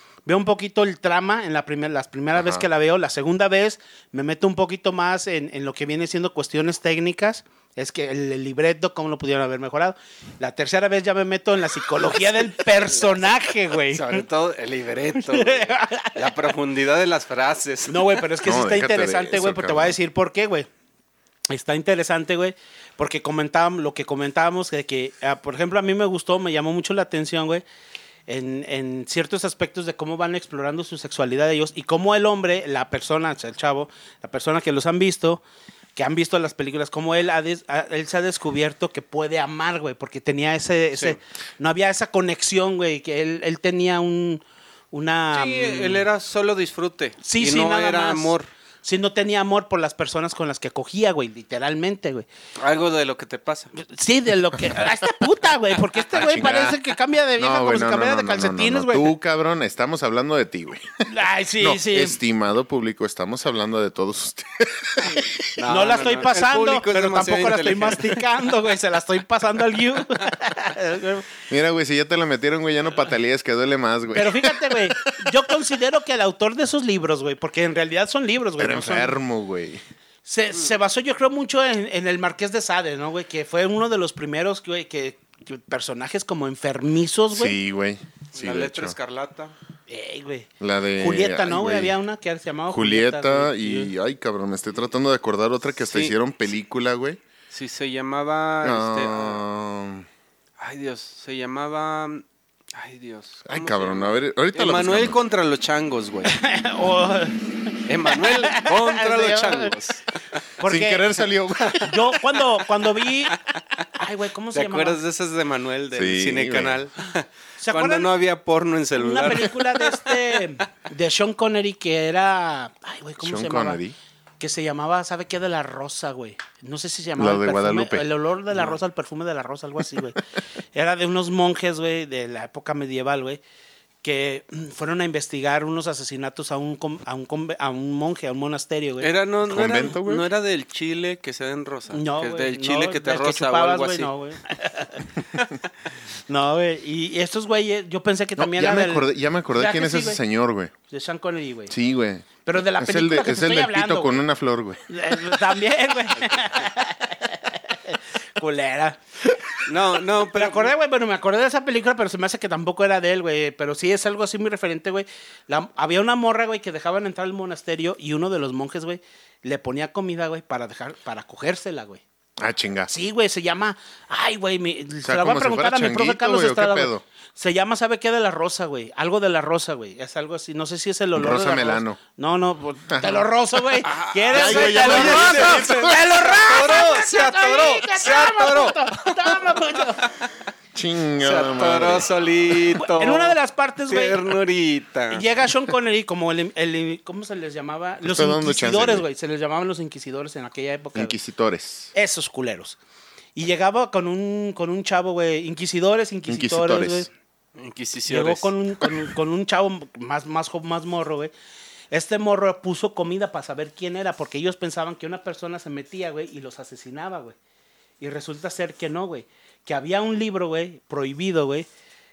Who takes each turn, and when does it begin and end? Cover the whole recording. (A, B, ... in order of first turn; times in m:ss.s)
0:00.3-0:14.2 A
0:02.4-0:02.6 B
0:12.9-0:13.3 C
0:13.9-0:18.2 C
0:15.3-0:16.3 A
0:17.9-0:20.7 A
0:18.4-0:20.0 B
0:21.5-0:27.6 A
0:28.3-0:35.4 A
0:36.0-0:46.0 A
0:45.3-0:48.5 C
0:47.2-0:48.3 A
0:48.8-0:52.3 A
0:52.6-0:53.7 C
0:53.8-0:59.1 A
0:56.1-0:56.8 B
0:57.4-1:01.0 B
1:01.1-1:02.2 A
1:01.6-1:05.5 B
1:05.6-1:08.3 C
1:05.7-1:11.3 A
1:11.5-1:15.6 B
1:14.1-1:19.1 A
1:18.6-1:19.8 B
1:20.3-1:27.6 A
1:27.3-1:29.0 B
1:28.3-1:29.6 C
1:29.9-1:33.9 A
1:30.6-1:31.9 B
1:32.7-1:37.2 B
1:35.8-1:36.1 C
1:37.5-1:39.4 C
1:38.6-1:40.1 B
1:40.6-1:46.3 C
1:43.4-1:45.2 B
1:46.2-1:49.7 A
1:47.9-1:50.0 C
1:50.6-1:51.0 A
1:50.6-1:51.8 B
1:51.6-1:51.9 C
1:51.8-1:53.4 A
1:54.0-1:55.0 A
1:54.5-2:00.4 C
1:55.9-1:56.8 B
1:57.6-1:58.1 A
1:59.0-2:03.8 A
2:03.2-2:03.9 B
2:04.4-2:10.2 A
2:07.2-2:08.1 B
2:10.7-2:13.4 A
2:14.0-2:19.1 A
2:19.0-2:24.1 C
2:19.5-2:20.3 B
2:21.9-2:25.2 A
2:26.3-2:30.2 A
2:28.4-2:30.7 B
2:30.9-2:31.7 A
2:31.7-2:34.8 B
2:32.4-2:34.2 A
2:34.9-2:39.0 A
2:39.7-2:40.7 C
2:40.2-2:52.0 A
2:52.4-2:52.9 B
2:52.9-3:10.1 A
2:55.0-2:57.0 B
3:01.2-3:02.0 B
3:02.9-3:03.2 B
3:03.8-3:09.6 C
3:04.3-3:06.1 B
3:10.7-3:12.1 B
3:11.2-3:11.8 A
3:11.4-3:13.4 C
3:12.8-3:14.2 A
3:13.9-3:15.2 C
3:15.1-3:21.2 A
3:18.0-3:19.0 B
3:21.0-3:21.9 B
3:21.9-3:22.8 A
3:23.4-3:27.1 A
3:26.3-3:27.1 B
3:27.6-3:28.5 C
3:28.1-3:31.3 A
3:31.9-3:37.4 A
3:38.0-3:41.7 A